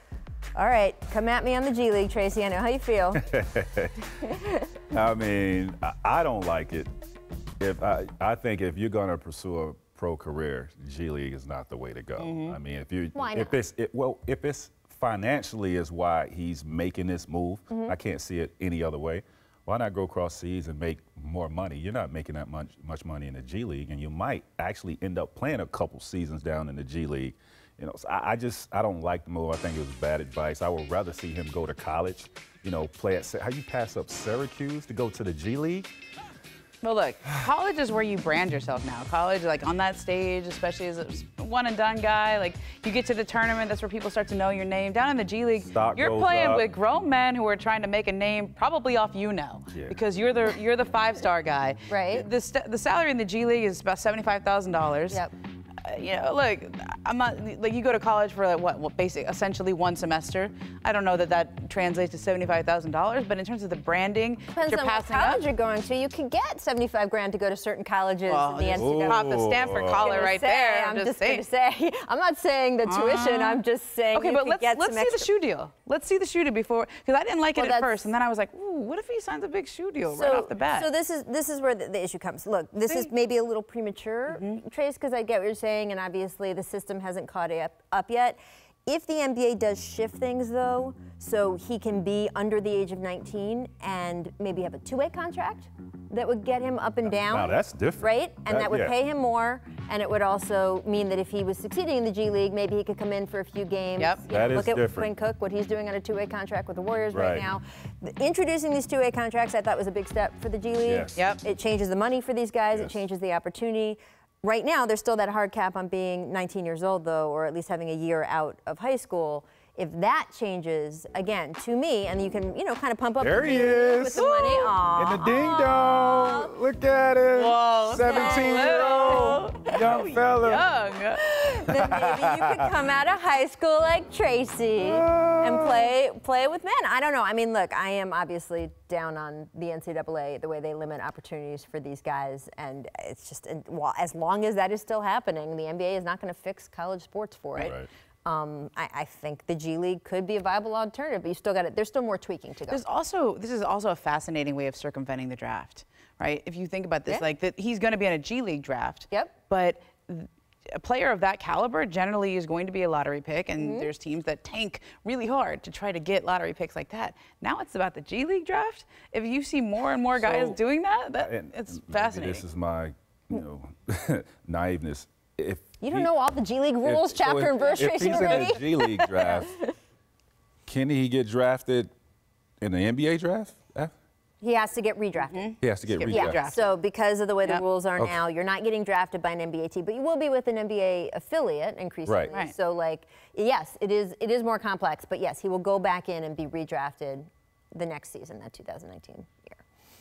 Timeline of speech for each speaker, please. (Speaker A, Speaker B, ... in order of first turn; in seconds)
Speaker A: 0.5-3.2, 13.1-13.6, 51.9-52.3, 64.5-75.3, 77.5-78.1, 80.0-126.6, 128.0-129.8, 131.3-152.8, 163.6-163.9, 175.8-179.7, 184.4-185.5, 186.1-199.6
Speaker B: 3.2-4.0, 4.9-6.9, 7.6-35.9, 45.6-46.7, 49.7-50.0, 68.7-70.1, 97.2-98.9, 104.3-105.1, 107.1-107.5, 110.8-111.3, 112.7-113.0, 123.2-124.3, 125.0-130.7, 131.7-132.8, 134.8-135.9, 147.6-147.9, 170.1-170.6, 171.1-176.1, 176.8-179.6, 180.7-181.9, 182.6-183.9, 185.6-186.4
Speaker C: 12.2-12.6, 36.8-55.2, 55.8-65.4, 68.3-71.4, 72.8-80.9, 84.3-84.6, 104.0-104.2, 111.2-111.4, 124.2-124.7, 127.3-131.5, 152.7-172.4, 177.7-178.6, 185.3-186.8